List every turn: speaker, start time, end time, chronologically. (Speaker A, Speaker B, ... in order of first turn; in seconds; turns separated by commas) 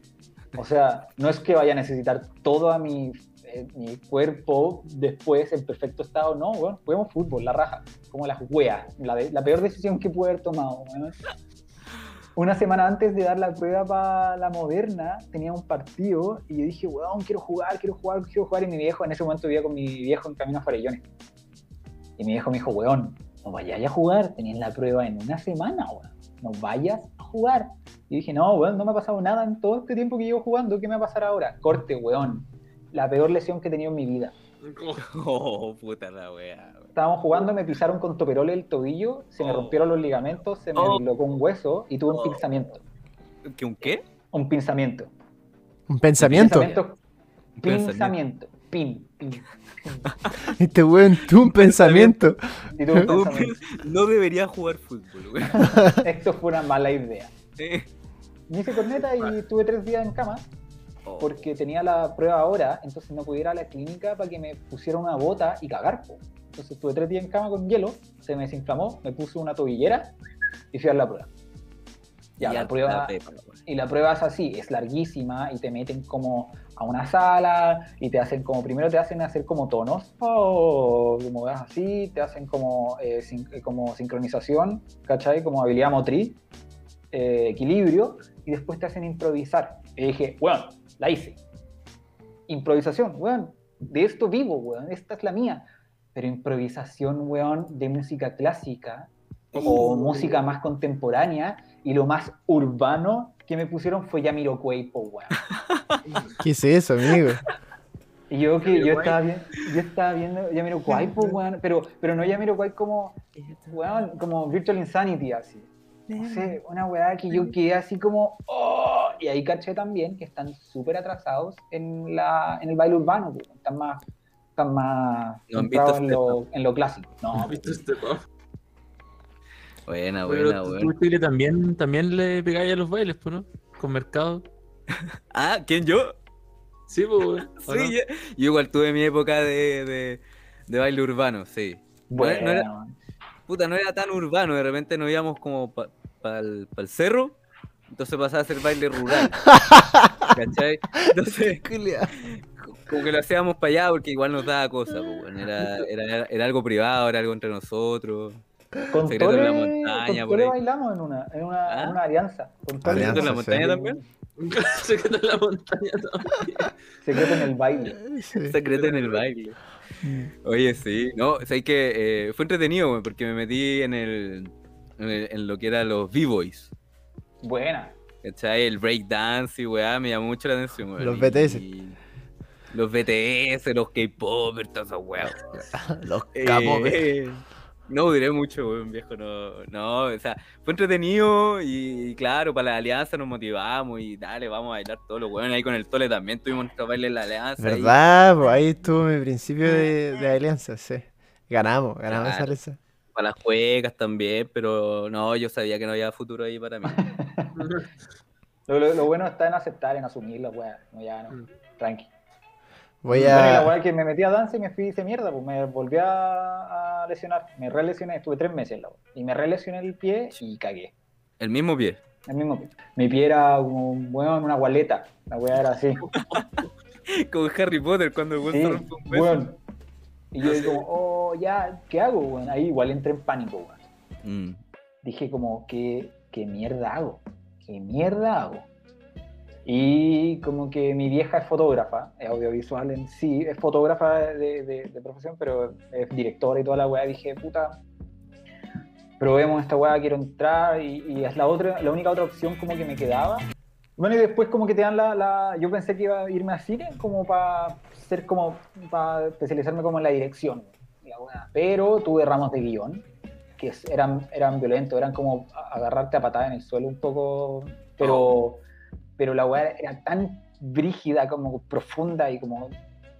Speaker A: 0.5-11.2, Speaker A: 12.3-21.0, Speaker A: 22.2-34.3, Speaker B: 34.6-35.0, Speaker C: 35.0-36.9, Speaker A: 36.9-42.8, Speaker C: 39.4-39.8, Speaker C: 40.7-41.0, Speaker C: 42.1-42.4, Speaker C: 43.4-44.0, Speaker A: 44.3-45.1, Speaker D: 45.9-46.7, Speaker C: 46.2-46.7, Speaker A: 46.3-47.0, Speaker A: 47.6-50.1, Speaker C: 47.6-48.1, Speaker D: 50.4-53.0, Speaker A: 51.5-53.6, Speaker C: 53.0-55.8, Speaker A: 55.6-57.3, Speaker C: 57.5-57.9, Speaker A: 58.5-60.5, Speaker C: 61.0-61.4, Speaker A: 61.2-70.1, Speaker A: 70.7-71.3, Speaker A: 72.4-73.1, Speaker C: 72.4-73.6, Speaker A: 73.7-86.4, Speaker A: 87.1-91.4, Speaker A: 92.5-105.5, Speaker B: 99.5-100.5, Speaker C: 99.5-100.2, Speaker C: 105.5-106.0, Speaker D: 106.4-107.4, Speaker A: 108.3-124.0, Speaker B: 108.7-109.2, Speaker C: 113.4-113.7, Speaker C: 116.1-116.5, Speaker A: 124.6-127.6, Speaker C: 125.5-126.4, Speaker B: 127.4-128.2, Speaker C: 129.8-130.9, Speaker B: 130.3-134.4, Speaker C: 135.3-136.2, Speaker B: 136.9-137.9, Speaker C: 137.6-142.7, Speaker A: 142.1-142.9, Speaker C: 143.5-147.3, Speaker C: 147.9-149.4, Speaker D: 149.5-150.3, Speaker C: 150.3-158.4, Speaker D: 151.3-152.1, Speaker A: 158.9-164.0, Speaker C: 159.1-160.6, Speaker C: 161.7-162.0, Speaker D: 162.8-163.7, Speaker C: 162.9-164.0, Speaker B: 164.4-166.7, Speaker A: 167.0-168.0, Speaker D: 168.0-168.6, Speaker C: 168.4-169.6, Speaker B: 168.7-169.2, Speaker D: 170.0-170.3, Speaker C: 170.4-176.7, Speaker A: 177.4-177.9, Speaker C: 178.2-181.9, Speaker D: 181.0-181.6, Speaker C: 182.7-185.4, Speaker D: 185.2-187.1, Speaker C: 186.3-198.0, Speaker D: 197.6-202.8, Speaker C: 202.1-202.5, Speaker C: 203.1-207.0, Speaker A: 206.9-207.7, Speaker B: 207.6-207.9, Speaker A: 208.7-212.1, Speaker D: 213.0-213.7, Speaker A: 213.1-220.9, Speaker C: 221.4-222.0, Speaker A: 222.3-226.1, Speaker C: 226.1-226.5, Speaker B: 226.3-226.7, Speaker C: 227.1-229.4, Speaker A: 228.4-229.6, Speaker A: 230.3-233.8, Speaker C: 230.4-230.7, Speaker C: 234.2-234.6, Speaker A: 235.0-238.7, Speaker A: 239.6-247.8, Speaker A: 249.2-263.0, Speaker A: 263.6-268.6, Speaker C: 268.0-268.4, Speaker A: 269.2-272.7